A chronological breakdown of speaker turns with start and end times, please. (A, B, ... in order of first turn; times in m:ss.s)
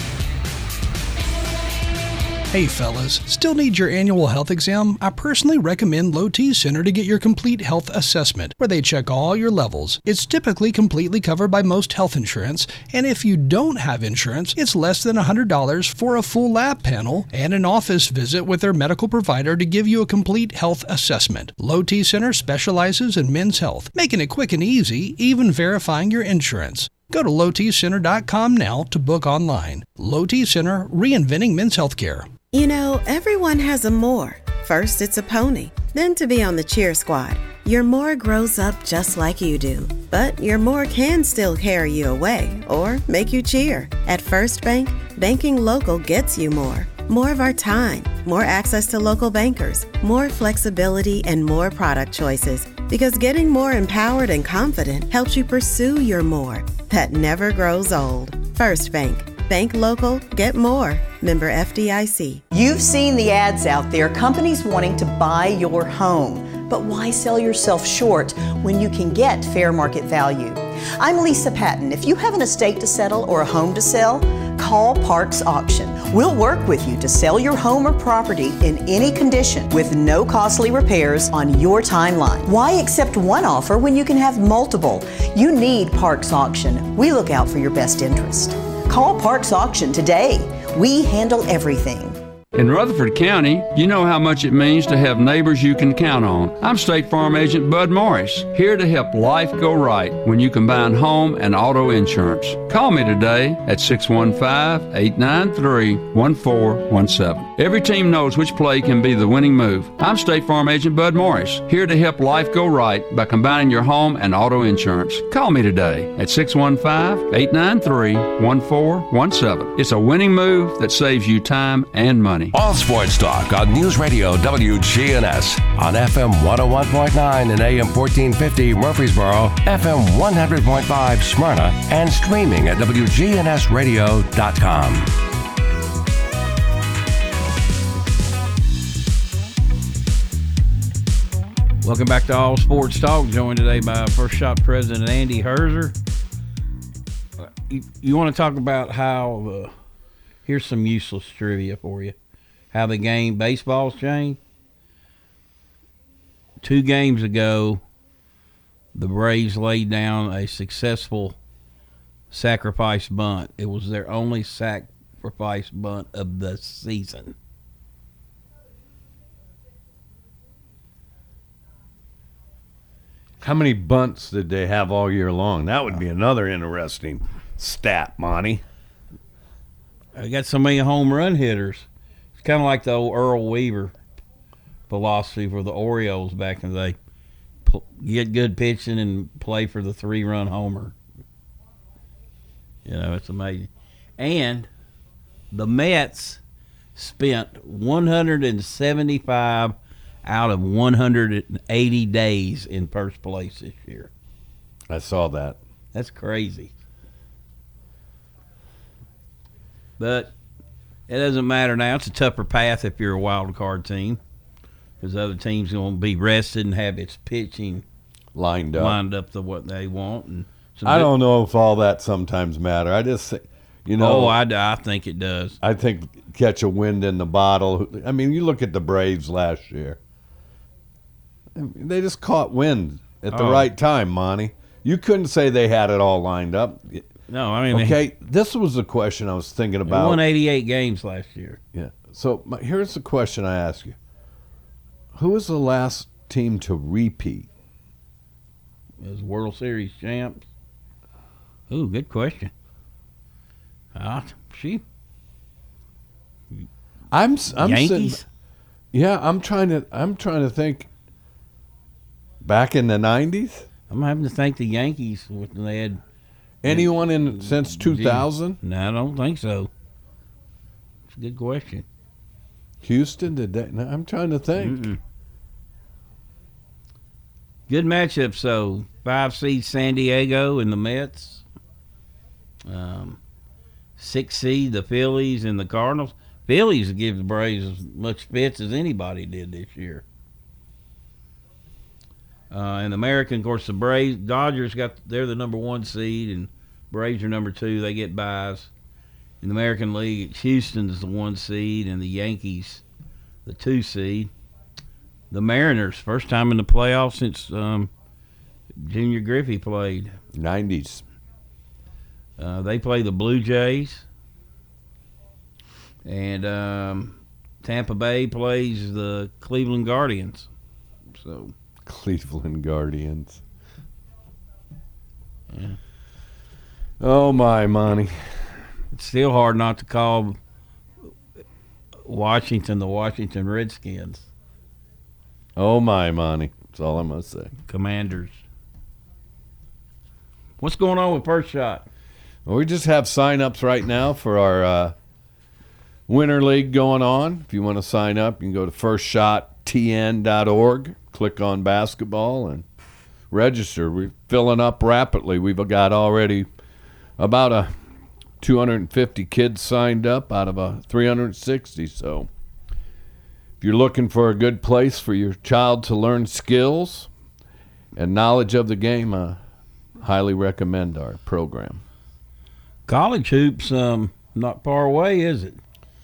0:02.5-0:32.3 A
0:32.5-1:02.4 B
1:02.5-1:32.2 C
1:32.5-2:02.5 D
2:02.5-2:15.1 E
2:21.8-2:26.0 F
2:27.4-2:29.7 F
2:30.4-2:32.2 F
2:32.7-2:34.4 F
2:36.6-2:37.8 F
2:39.0-2:41.4 F
2:42.3-2:47.4 F
2:53.4-2:58.6 G
3:00.2-3:04.0 F
3:04.9-3:07.0 F
3:07.7-3:11.0 F
3:12.9-3:14.7 F
3:15.5-3:16.4 F
3:17.0-3:24.1 F
3:24.9-3:25.6 G
3:25.9-3:26.7 F
3:30.0-3:30.3 F
3:31.1-3:34.2 F
3:35.0-3:37.8 F
3:38.4-3:39.0 G
3:38.8-3:41.1 F
3:40.8-3:44.4 G
3:44.0-3:45.6 F
3:45.6-3:50.0 G
3:51.6-3:57.1 G
3:53.3-3:53.7 F
3:57.3-3:58.0 F
3:57.7-4:00.2 G
3:59.9-4:01.6 F
4:01.7-4:04.0 G
4:05.2-4:07.5 G
4:09.0-4:10.5 F
4:11.7-4:12.5 F
4:14.0-4:14.8 F
4:17.1-4:18.2 G
4:17.6-4:18.2 F
4:18.9-4:20.9 G
4:22.4-4:23.7 G
4:23.9-4:26.0 F
4:26.6-4:28.6 G
4:26.7-4:29.7 F
4:31.1-4:31.9 F
4:32.8-4:34.8 G
4:34.6-4:35.0 F
4:37.7-4:41.4 F
4:42.6-4:43.2 F
4:44.0-4:50.0 F
4:52.5-4:58.7 F
4:59.4-5:02.8 F
5:03.4-5:04.3 F
5:05.3-5:07.9 F
5:08.8-5:10.2 F
5:10.3-5:11.0 G
5:12.4-5:14.1 F
5:16.0-5:20.5 F
5:21.2-5:21.5 F
5:21.9-5:23.4 G
5:25.5-5:25.8 F
5:27.0-5:28.5 G
5:28.9-5:30.4 F
5:32.1-5:34.3 F
5:35.6-5:37.5 G
5:37.7-5:38.4 F
5:40.6-5:41.9 F
5:42.5-5:45.0 G
5:46.1-5:52.6 G
5:53.3-5:56.5 G
5:57.2-5:57.8 G
5:58.4-6:02.3 G
6:03.6-6:07.1 G
6:08.0-6:09.4 G
6:10.0-6:11.8 G
6:12.9-6:15.6 F